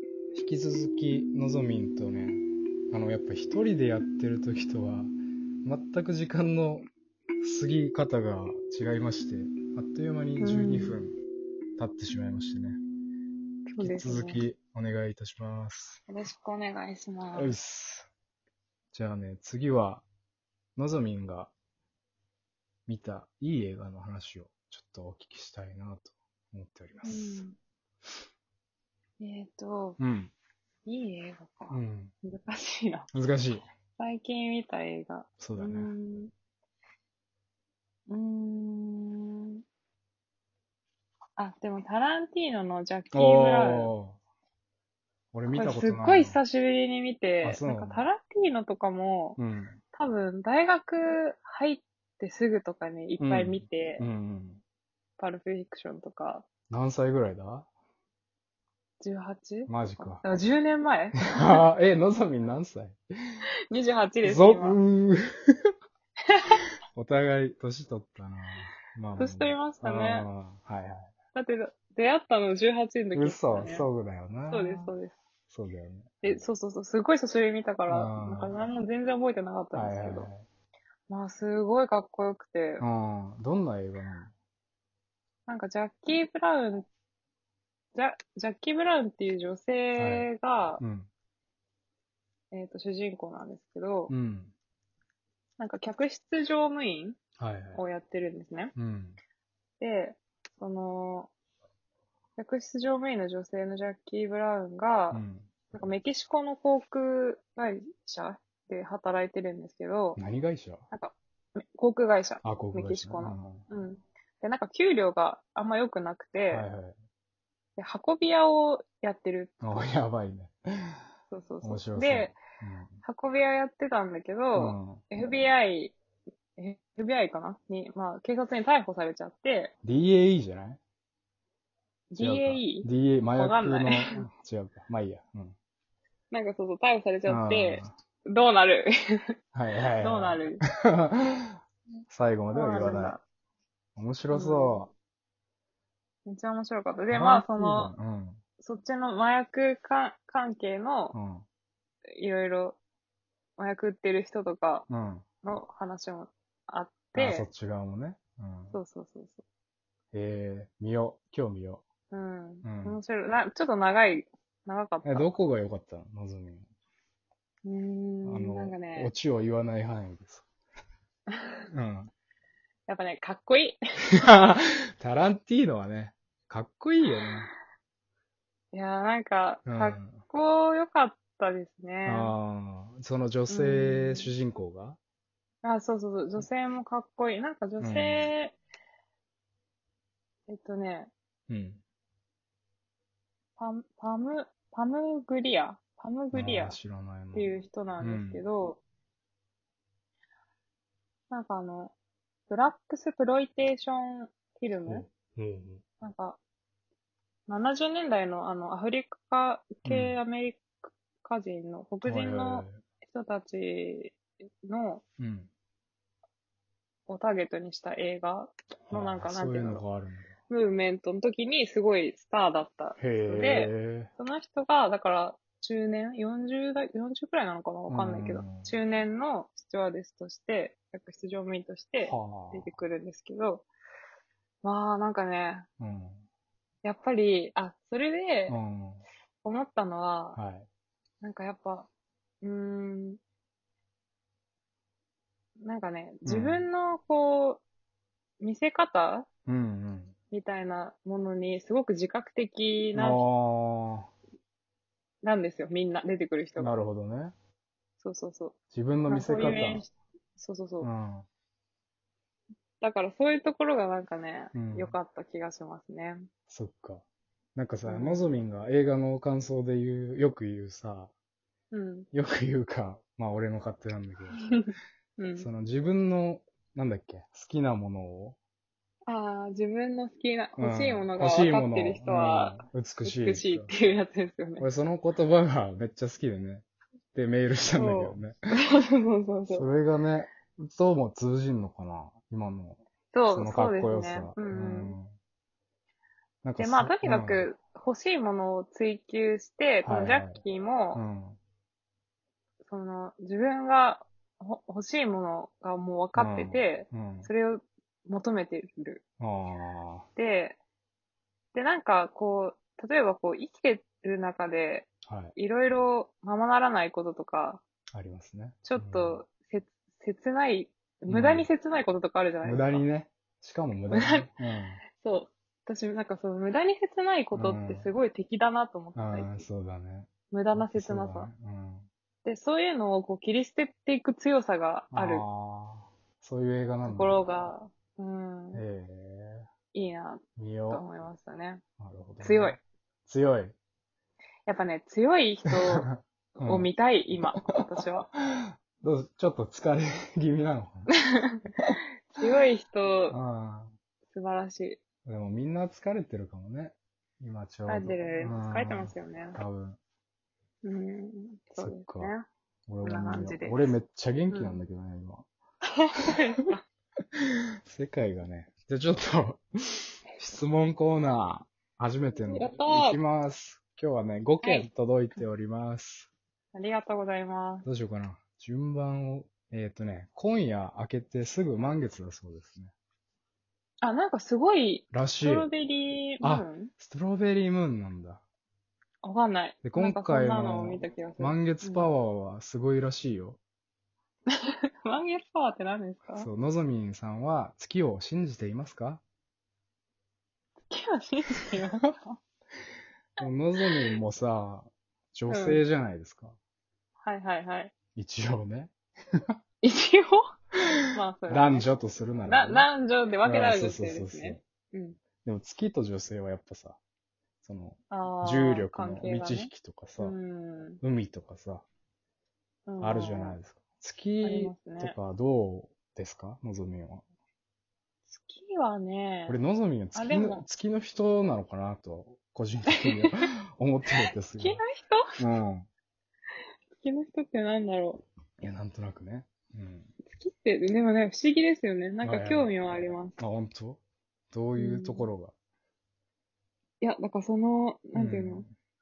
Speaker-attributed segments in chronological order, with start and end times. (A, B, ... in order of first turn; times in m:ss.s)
0:00.3-0:05.1 A
0:05.6-0:06.8 A
0:07.4-0:11.2 A
0:10.4-0:11.0 B
0:11.8-0:12.8 A
0:13.7-0:14.4 B
0:13.8-0:16.0 A
0:16.1-0:17.5 B
0:17.3-0:18.1 A
0:18.9-0:20.0 A
0:20.8-0:21.5 A
0:22.9-0:27.4 A
0:27.0-0:27.6 B
0:29.2-0:30.0 B
0:30.0-0:30.3 A
0:30.8-0:33.1 B
0:31.7-0:32.1 A
0:33.1-0:33.6 A
0:34.0-0:36.3 B
0:35.4-0:35.9 A
0:38.1-0:39.6 B
0:41.4-0:43.9 B
0:43.1-0:44.2 A
0:45.3-0:46.4 A
0:45.5-0:49.4 B
0:47.4-0:48.1 A
0:49.4-0:49.8 A
0:49.9-0:54.1 B
0:53.2-0:54.6 A
0:55.2-0:56.4 B
0:56.7-0:57.7 A
0:59.0-1:01.6 B
0:59.7-1:00.2 A
1:01.2-1:03.0 A
1:03.7-1:04.8 B
1:04.2-1:05.2 A
1:06.3-1:06.6 B
1:06.9-1:11.1 A
1:09.2-1:10.3 B
1:11.3-1:13.9 B
1:13.1-1:14.9 A
1:14.5-1:15.2 B
1:15.5-1:16.4 A
1:16.2-1:20.3 B
1:17.9-1:18.5 A
1:19.7-1:20.5 A
1:21.1-1:22.8 B
1:22.8-1:24.3 A
1:25.5-1:26.8 B
1:27.9-1:30.8 B
1:30.0-1:30.3 A
1:30.8-1:31.1 A
1:32.5-1:34.1 B
1:34.1-1:34.5 A
1:35.6-1:37.2 B
1:37.4-1:37.8 A
1:37.7-1:38.7 B
1:38.8-1:39.2 A
1:39.8-1:41.3 B
1:42.4-1:50.2 B
1:45.1-1:45.5 A
1:50.2-1:50.8 A
1:50.9-1:56.6 B
1:52.4-1:53.6 A
1:56.5-1:56.9 A
1:57.8-1:59.8 B
1:59.6-2:01.0 A
2:01.3-2:02.3 B
2:01.6-2:03.0 A
2:03.0-2:05.9 B
2:04.5-2:05.0 A
2:06.6-2:09.7 B
2:09.8-2:10.8 A
2:12.1-2:14.3 B
2:12.2-2:15.5 A
2:16.3-2:19.2 B
2:17.2-2:17.9 A
2:19.5-2:21.6 A
2:20.0-2:20.6 B
2:22.1-2:23.2 A
2:22.5-2:23.2 B
2:24.0-2:24.9 A
2:24.3-2:24.9 B
2:26.2-2:27.9 B
2:27.1-2:28.4 A
2:28.6-2:31.1 B
2:31.1-2:31.4 A
2:32.1-2:32.8 B
2:33.6-2:34.9 B
2:34.9-2:35.2 A
2:35.4-2:37.5 B
2:37.1-2:38.8 A
2:38.7-2:39.4 B
2:40.1-2:41.8 A
2:42.1-2:45.3 B
2:42.6-2:43.0 A
2:45.0-2:46.6 A
2:47.6-2:49.1 B
2:48.2-2:50.4 A
2:51.3-2:51.6 B
2:51.7-2:52.1 A
2:52.9-2:53.8 B
2:54.2-2:57.5 A
2:58.7-3:02.3 B
2:59.6-3:00.2 A
3:02.0-3:05.0 A
3:03.5-3:04.3 B
3:05.6-3:08.5 B
3:07.8-3:08.3 A
3:10.5-3:11.1 B
3:11.5-3:11.8 A
3:13.6-3:16.8 B
3:16.3-3:18.4 A
3:17.3-3:18.8 B
3:21.3-3:21.9 B
3:22.5-3:25.0 B
3:24.8-3:25.8 A
3:26.0-3:26.4 B
3:27.5-3:35.0 B
3:29.8-3:30.2 A
3:32.0-3:32.8 A
3:35.2-3:35.5 A
3:37.1-3:39.8 B
3:38.9-3:40.3 A
3:40.5-3:53.6 B
3:43.0-3:44.1 A
3:47.9-3:48.7 A
3:52.0-3:52.8 A
3:54.6-3:55.6 B
3:55.8-3:56.2 A
3:56.8-3:58.6 B
3:58.5-3:59.0 A
3:59.4-4:00.4 B
4:00.3-4:00.7 A
4:01.2-4:01.9 B
4:02.4-4:03.2 B
4:05.6-4:07.6 B
4:06.2-4:06.6 A
4:08.4-4:09.3 B
4:09.5-4:10.1 A
4:10.3-4:13.2 B
4:12.9-4:14.1 A
4:15.2-4:16.7 B
4:16.6-4:17.3 A
4:18.0-4:18.5 B
4:18.7-4:19.8 A
4:19.1-4:20.9 B
4:20.8-4:21.3 A
4:22.8-4:26.3 B
4:24.5-4:24.9 A
4:26.5-4:27.0 A
4:27.5-4:31.1 A
4:27.8-4:28.2 B
4:31.7-4:32.1 B
4:32.1-4:34.5 A
4:34.4-4:35.5 B
4:35.4-4:38.4 A
4:39.0-4:44.7 B
4:40.6-4:43.7 A
4:44.6-4:48.4 A
4:47.7-4:49.7 B
4:49.5-4:55.2 A
4:53.1-4:54.9 B
4:56.4-4:57.5 A
4:56.6-5:01.0 B
4:59.8-5:00.4 A
5:00.9-5:01.4 A
5:02.6-5:09.0 B
5:06.1-5:07.3 A
5:09.2-5:10.1 A
5:10.2-5:10.6 B
5:11.5-5:17.6 B
5:15.0-5:15.3 A
5:17.9-5:19.2 A
5:18.6-5:22.8 B
5:21.1-5:21.5 A
5:22.4-5:24.8 A
5:23.9-5:24.3 B
5:25.0-5:29.4 B
5:27.3-5:27.9 A
5:28.9-5:31.9 A
5:30.3-5:31.3 B
5:32.2-5:35.2 B
5:34.9-5:37.2 A
5:36.8-5:38.6 B
5:38.5-5:39.4 A
5:39.7-5:41.6 B
5:40.4-5:40.9 A
5:41.8-5:43.5 A
5:42.2-5:42.6 B
5:44.4-5:45.9 B
5:45.4-5:46.7 A
5:46.4-5:48.1 B
5:48.1-5:50.9 A
5:50.9-5:51.4 B
5:52.1-5:53.2 B
5:53.1-5:53.7 A
5:54.1-5:54.8 B
5:55.0-5:59.8 A
5:57.6-5:59.4 B
6:00.6-6:02.2 B
6:01.6-6:02.1 A
6:02.7-6:05.3 A
6:02.8-6:03.7 B
6:04.3-6:04.6 B
6:05.8-6:06.6 B
6:07.7-6:16.1 A
6:12.3-6:13.0 B
6:14.4-6:15.2 B
6:16.5-6:17.6 B
6:17.6-6:22.7 A
6:23.8-6:26.7 B
6:24.9-6:25.5 A
6:26.2-6:28.2 A
6:29.0-6:31.9 B
6:29.6-6:33.4 A
6:34.3-6:36.3 B
6:36.1-6:39.0 A
6:40.7-6:42.2 B
6:43.2-6:46.4 A
6:43.6-6:43.9 B
6:45.3-6:45.6 B
6:47.0-6:47.7 B
6:47.9-6:48.7 A
6:49.6-6:50.2 B
6:50.9-6:51.7 B
6:51.3-6:52.7 A
6:52.3-6:55.0 B
6:53.2-6:54.4 A
6:55.2-6:56.8 A
6:57.4-7:00.2 A
6:57.9-7:00.8 B
7:00.8-7:01.6 A
7:02.7-7:03.4 B
7:02.8-7:07.0 A
7:04.2-7:05.0 B
7:08.1-7:09.4 B
7:09.3-7:14.6 A
7:09.9-7:10.4 B
7:12.8-7:13.2 B
7:13.9-7:15.1 B
7:15.2-7:15.7 A
7:16.8-7:18.0 B
7:18.4-7:19.9 A
7:20.1-7:23.2 B
7:22.0-7:22.5 A
7:23.2-7:23.8 A
7:24.3-7:25.3 A
7:24.6-7:25.1 B
7:26.8-7:28.4 B
7:27.9-7:28.5 A